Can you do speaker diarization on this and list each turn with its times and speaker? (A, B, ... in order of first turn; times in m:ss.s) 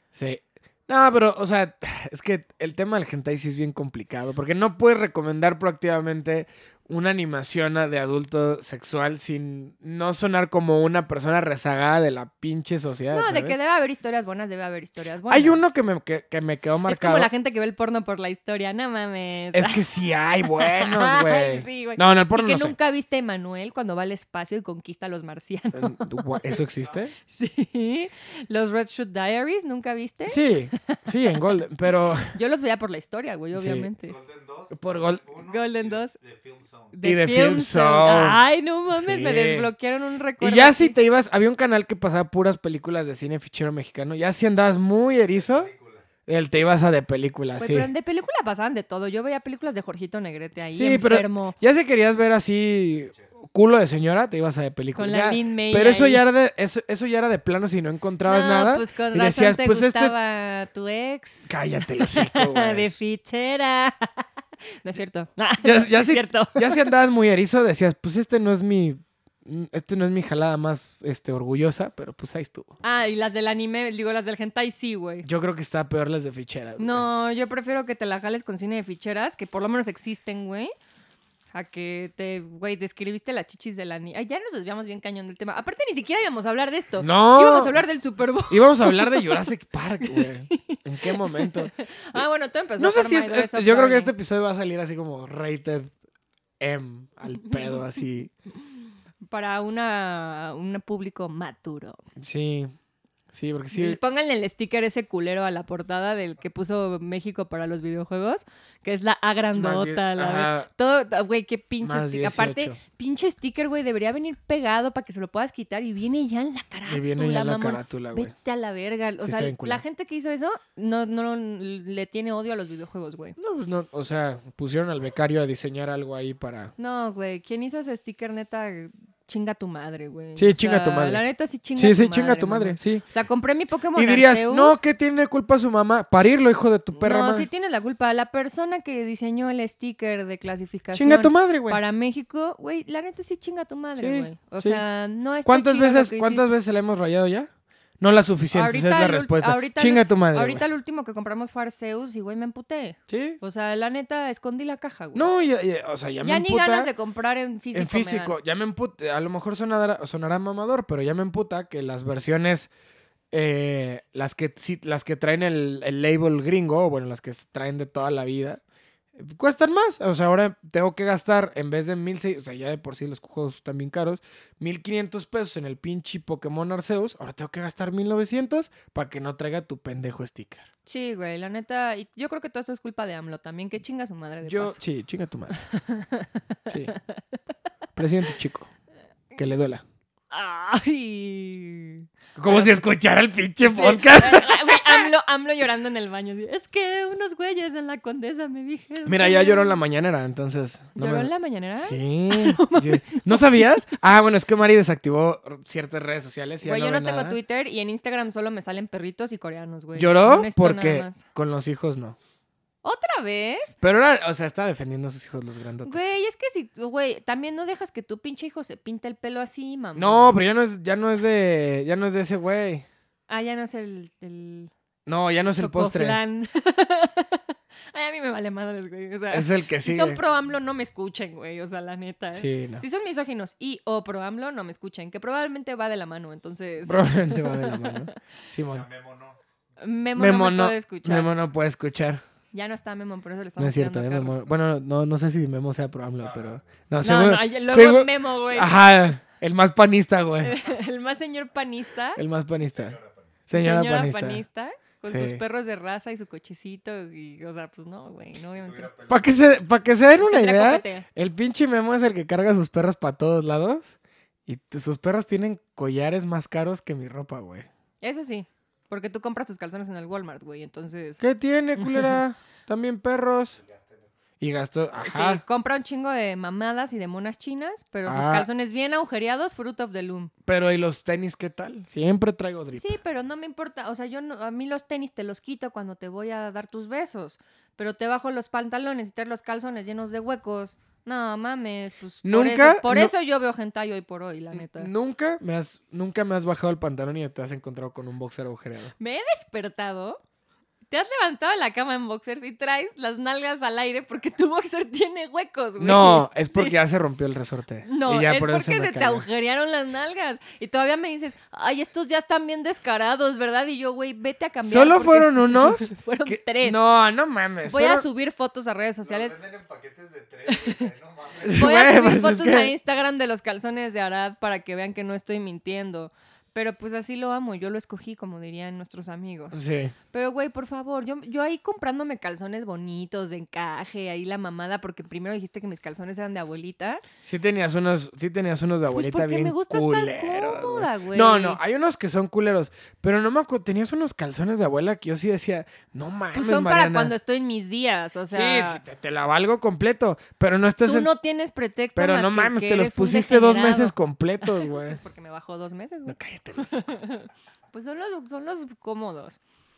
0:00.1-0:13.6 A
0:13.1-0:15.7 B
0:15.3-0:17.3 A
0:16.9-0:19.8 B
0:19.5-0:22.7 A
0:20.5-0:26.5 B
0:25.7-0:27.1 A
0:27.3-0:31.3 B
0:30.3-0:32.3 A
0:32.3-0:34.2 B
0:33.5-0:33.9 A
0:34.0-0:36.9 C
0:34.7-0:35.2 A
0:35.4-0:36.2 B
0:36.9-0:41.0 B
0:37.0-0:39.7 A
0:40.4-0:45.7 A
0:45.3-0:46.0 C
0:46.2-0:47.9 A
0:47.6-0:51.6 B
0:50.7-1:00.1 A
0:55.0-0:56.2 B
0:58.2-1:04.2 B
1:01.5-1:02.9 A
1:04.8-1:06.9 B
1:05.6-1:12.7 A
1:12.8-1:15.3 B
1:15.2-1:17.0 A
1:16.8-1:20.7 B
1:21.5-1:29.4 B
1:27.0-1:27.8 A
1:28.5-1:32.2 A
1:30.0-1:34.1 B
1:32.8-1:35.9 A
1:36.6-1:38.3 A
1:39.2-1:42.0 B
1:42.2-1:42.7 A
1:43.3-1:44.0 A
1:43.7-2:03.4 B
1:49.5-1:50.7 A
1:51.8-1:52.8 A
1:56.9-1:58.3 A
1:59.2-1:59.8 A
2:03.4-2:06.7 A
2:06.8-2:14.8 B
2:10.4-2:11.2 A
2:11.8-2:13.0 A
2:13.9-2:17.5 A
2:16.9-2:26.5 B
2:20.9-2:21.8 A
2:24.0-2:24.8 A
2:25.4-2:30.6 A
2:28.5-2:35.3 B
2:33.1-2:33.4 A
2:35.1-2:36.9 A
2:36.2-2:38.4 B
2:37.7-2:42.7 A
2:43.3-2:48.6 A
2:49.2-3:00.7 A
3:00.8-3:04.8 B
3:04.4-3:05.6 A
3:05.7-3:07.2 B
3:06.7-3:06.9 A
3:08.0-3:08.7 A
3:09.4-3:09.8 A
3:10.3-3:12.9 B
3:12.4-3:15.1 A
3:13.6-3:19.8 B
3:19.0-3:27.4 A
3:21.0-3:23.7 B
3:26.6-3:31.2 B
3:29.9-3:32.2 A
3:32.8-3:33.8 B
3:33.8-3:36.1 A
3:35.8-3:40.4 B
3:39.9-3:42.8 A
3:43.3-3:44.7 B
3:45.0-3:46.2 A
3:45.6-3:58.1 B
3:49.3-3:50.2 A
3:52.3-3:52.8 A
3:56.8-3:58.8 A
3:58.6-3:59.4 C
3:59.8-4:01.3 B
4:00.2-4:02.2 A
4:02.5-4:04.4 B
4:03.6-4:10.6 A
4:06.2-4:06.8 C
4:07.0-4:08.7 B
4:10.4-4:12.2 B
4:12.2-4:14.4 A
4:12.7-4:13.3 C
4:13.5-4:18.9 B
4:15.0-4:15.4 A
4:18.5-4:19.5 C
4:19.1-4:27.7 A
4:20.2-4:21.0 B
4:28.0-4:31.2 B
4:31.2-4:33.6 A
4:31.8-4:32.2 B
4:33.6-4:34.1 C
4:34.4-4:35.4 A
4:35.0-4:40.3 B
4:38.0-4:38.5 A
4:40.4-4:43.0 A
4:42.7-4:54.9 B
4:52.2-4:53.1 A
4:54.5-4:58.9 A
4:59.0-5:00.2 B
5:00.9-5:06.8 B
5:05.8-5:09.2 A
5:07.8-5:16.8 B
5:14.6-5:18.0 A
5:17.6-5:19.3 B
5:19.0-5:21.7 C
5:20.5-5:20.8 B
5:21.4-5:22.7 A
5:21.5-5:29.6 B
5:29.5-5:29.9 A
5:30.1-5:37.0 B
5:37.2-5:47.1 A
5:38.9-5:41.6 B
5:46.3-5:48.8 B
5:48.3-5:51.1 A
5:50.8-5:59.4 B
5:52.0-5:55.0 A
5:56.0-5:57.0 A